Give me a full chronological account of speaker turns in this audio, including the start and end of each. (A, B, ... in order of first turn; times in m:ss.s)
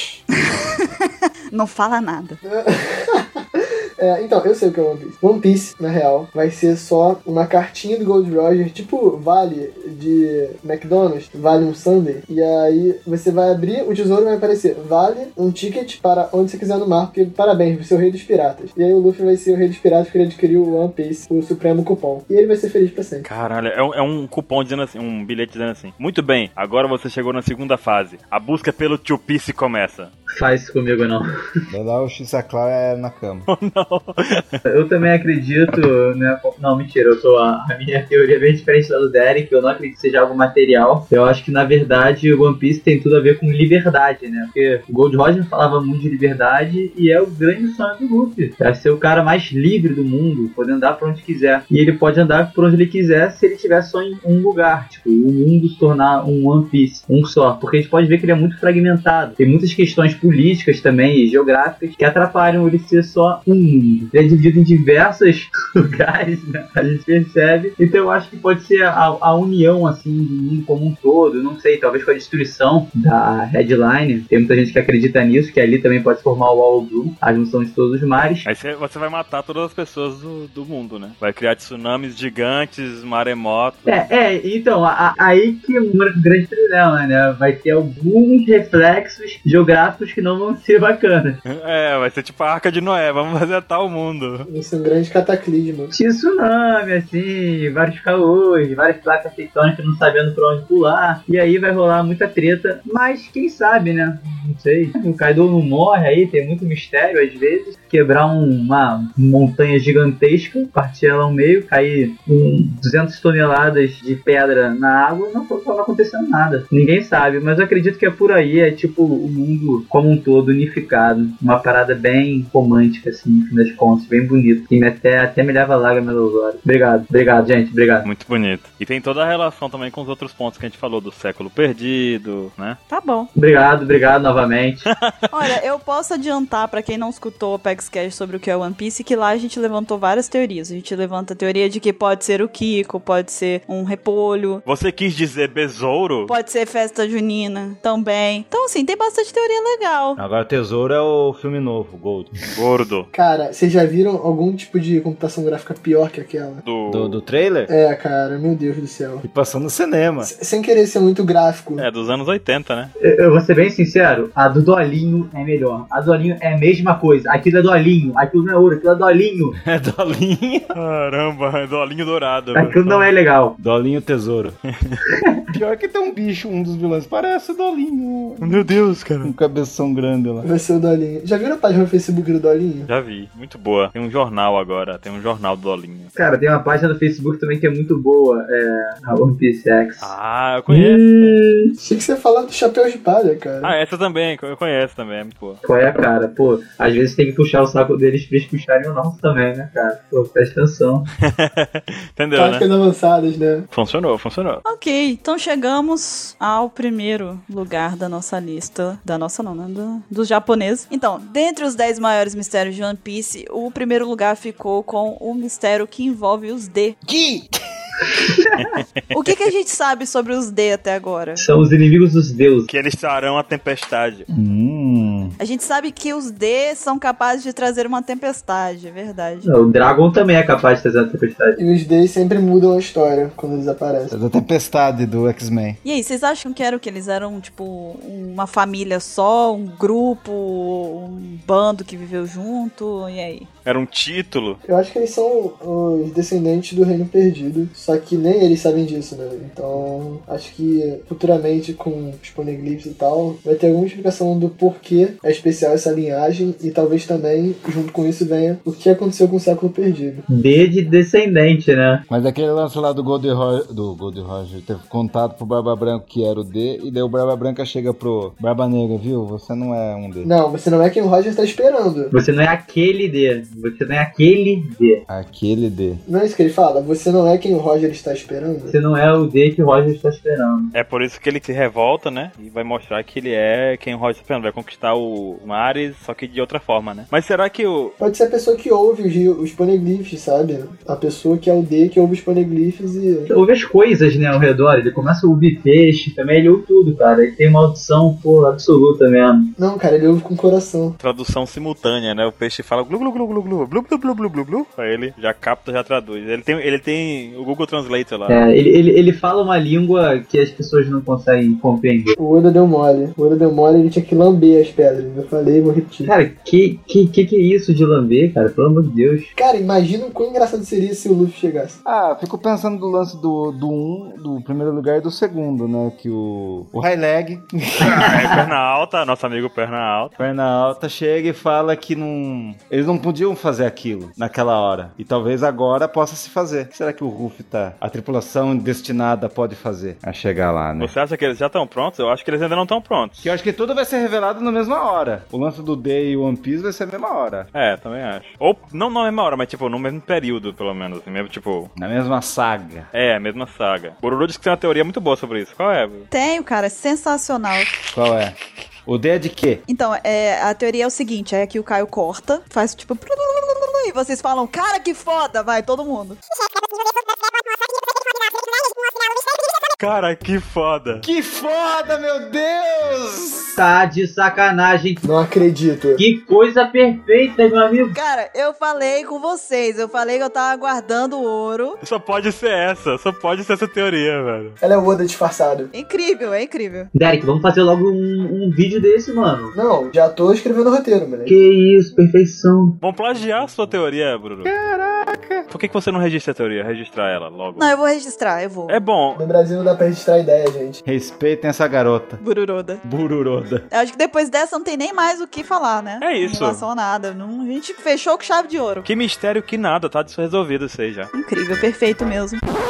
0:00.4-0:02.4 A
0:02.4-0:23.3 B
0:23.2-0:30.1 C
0:30.3-0:31.2 D
0:31.7-0:33.5 E
0:33.5-0:34.6 C
0:34.7-1:18.5 D
1:18.4-1:24.1 C
1:23.9-1:31.4 D
1:31.4-1:34.5 C
1:34.5-1:35.9 B
1:35.9-2:08.1 D
2:08.0-2:12.8 C
2:12.9-2:13.3 A
2:13.4-2:14.9 D
2:14.9-2:15.3 C
2:15.3-2:24.6 A
2:24.6-2:26.3 C
2:26.3-2:30.2 A
2:30.2-2:32.3 E
2:32.5-2:33.1 C
2:33.1-2:36.6 B
2:36.6-2:37.2 C
2:36.9-2:37.7 E
2:37.7-2:39.2 B
2:39.2-2:40.3 E
2:40.2-2:41.8 B
2:41.8-2:42.9 C
2:43.0-2:49.6 D
2:49.6-2:50.7 E
2:50.7-2:53.1 C
2:52.5-2:53.6 D
2:53.6-2:54.6 E
2:55.1-2:55.4 D
2:55.5-2:58.7 E
2:58.4-2:59.3 C
2:59.2-3:00.5 E
3:00.4-3:02.9 B
3:02.9-3:06.1 C
3:06.2-3:10.1 D
3:10.0-3:11.4 C
3:10.7-3:11.7 D
3:11.8-3:13.7 B
3:13.6-3:15.6 C
3:15.6-3:21.1 D
3:21.2-3:22.6 C
3:22.4-3:23.7 B
3:23.7-3:24.6 C
3:24.6-3:37.0 A
3:37.1-3:37.5 E
3:38.2-3:38.7 D
3:38.6-3:39.3 C
3:39.1-3:41.4 A
3:41.4-3:42.7 D
3:42.7-3:44.3 C
3:44.3-3:45.4 E
3:45.4-3:49.5 A
3:49.4-3:51.6 D
3:51.6-3:54.1 B
3:54.1-3:55.8 E
3:55.8-4:03.5 A
4:03.6-4:04.6 C
4:04.6-4:20.2 B
4:20.3-4:22.0 D
4:22.1-4:30.3 E
4:30.2-4:32.1 B
4:32.1-4:35.0 D
4:35.1-4:36.0 E
4:36.1-4:38.8 B
4:38.7-4:40.7 D
4:40.7-4:47.9 C
4:48.0-4:53.3 B
4:53.3-4:59.5 D
4:59.6-5:01.0 B
5:01.0-5:08.5 C
5:08.3-5:12.2 D
5:12.2-5:16.1 B
5:16.1-5:19.3 D
5:19.4-5:21.8 B
5:21.8-5:28.4 E
5:27.8-5:28.4 D
5:27.9-5:30.2 C
5:30.2-5:40.9 E
5:40.8-5:43.4 C
5:43.2-5:47.5 E
5:47.5-5:51.7 C
5:51.8-5:52.9 E
5:52.9-5:56.1 C
5:56.1-5:57.7 A
5:57.9-5:59.6 E
5:59.7-6:06.2 A
6:09.8-6:11.1 C
6:11.0-6:13.6 E
6:13.6-6:15.0 D
6:15.0-6:16.0 B
6:16.0-6:18.0 D
6:17.9-6:21.8 A
6:21.8-6:24.6 C
6:24.6-6:25.7 B
6:25.7-6:26.9 A
6:26.9-6:29.6 D
6:29.5-6:31.3 B
6:31.3-6:32.8 D
6:32.8-6:34.5 C
6:34.4-6:35.4 E
6:35.5-6:37.7 C
6:37.6-6:38.8 A
6:38.7-6:39.2 C
6:39.2-6:40.8 B
6:40.8-6:42.2 E
6:42.2-6:42.8 A
6:42.8-6:43.6 E
6:43.7-6:48.9 A
6:46.0-6:46.6 C
6:48.8-6:51.1 C
6:51.1-6:52.4 A